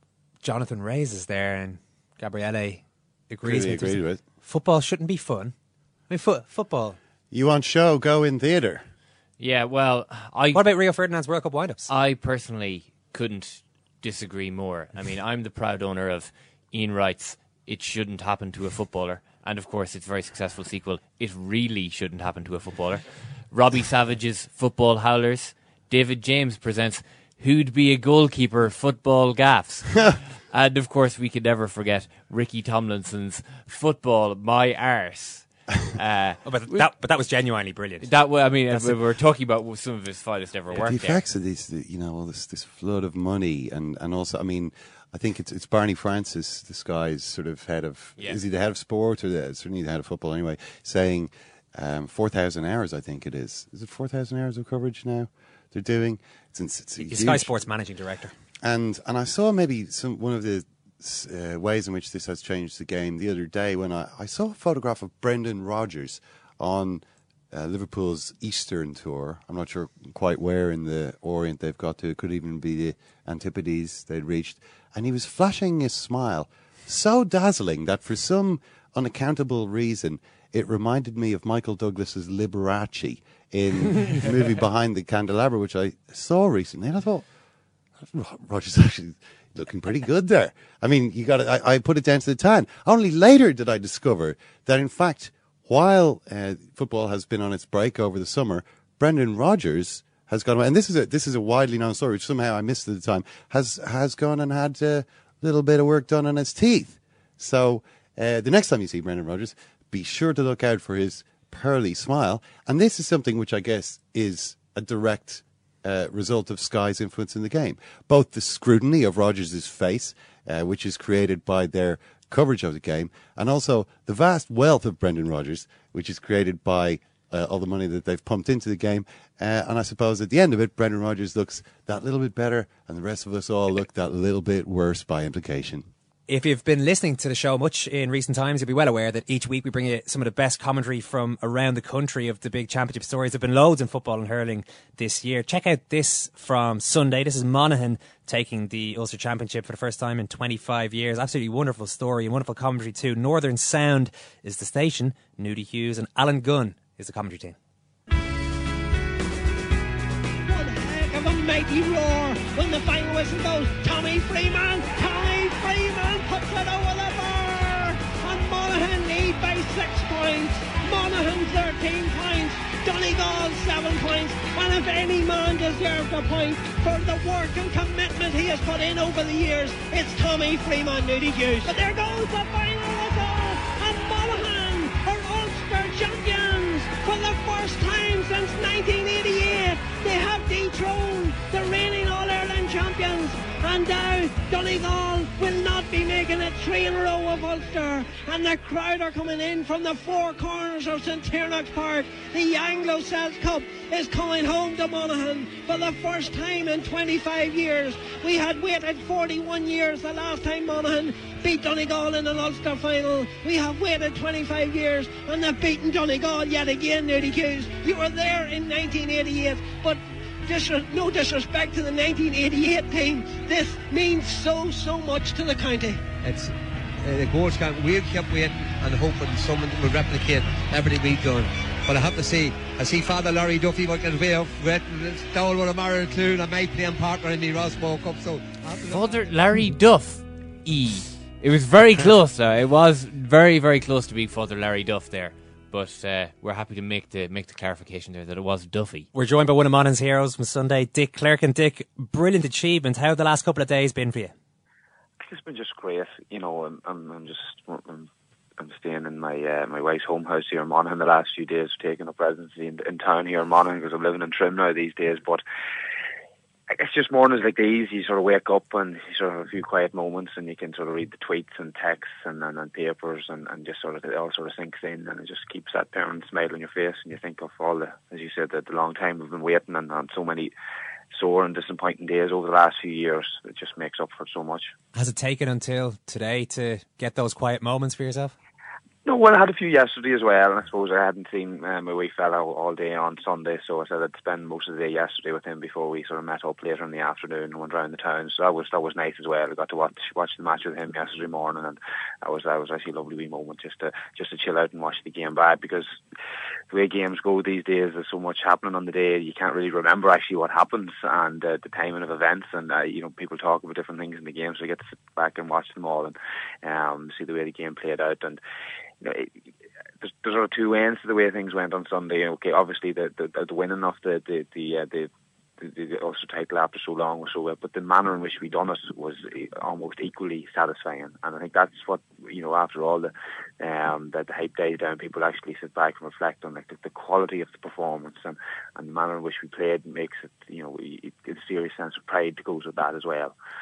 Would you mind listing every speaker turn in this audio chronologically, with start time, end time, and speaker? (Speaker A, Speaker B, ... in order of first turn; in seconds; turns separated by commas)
Speaker A: 0.4-5.5, Speaker B: 3.4-4.2, Speaker A: 6.1-7.0, Speaker B: 7.3-8.8, Speaker C: 9.4-10.7, Speaker A: 10.5-11.9, Speaker C: 11.9-36.9, Speaker A: 36.4-39.0, Speaker C: 38.0-41.2, Speaker B: 40.8-57.6, Speaker A: 57.0-58.3, Speaker B: 58.6-87.2, Speaker B: 88.0-135.9, Speaker A: 136.3-157.6, Speaker D: 160.4-226.0, Speaker E: 226.2-239.3, Speaker C: 238.8-249.1, Speaker A: 249.1-254.3, Speaker F: 255.2-265.4, Speaker F: 266.7-280.5, Speaker F: 281.1-284.7, Speaker A: 284.9-288.3, Speaker F: 289.0-306.0, Speaker F: 306.7-318.4, Speaker F: 319.0-319.3, Speaker F: 320.0-343.3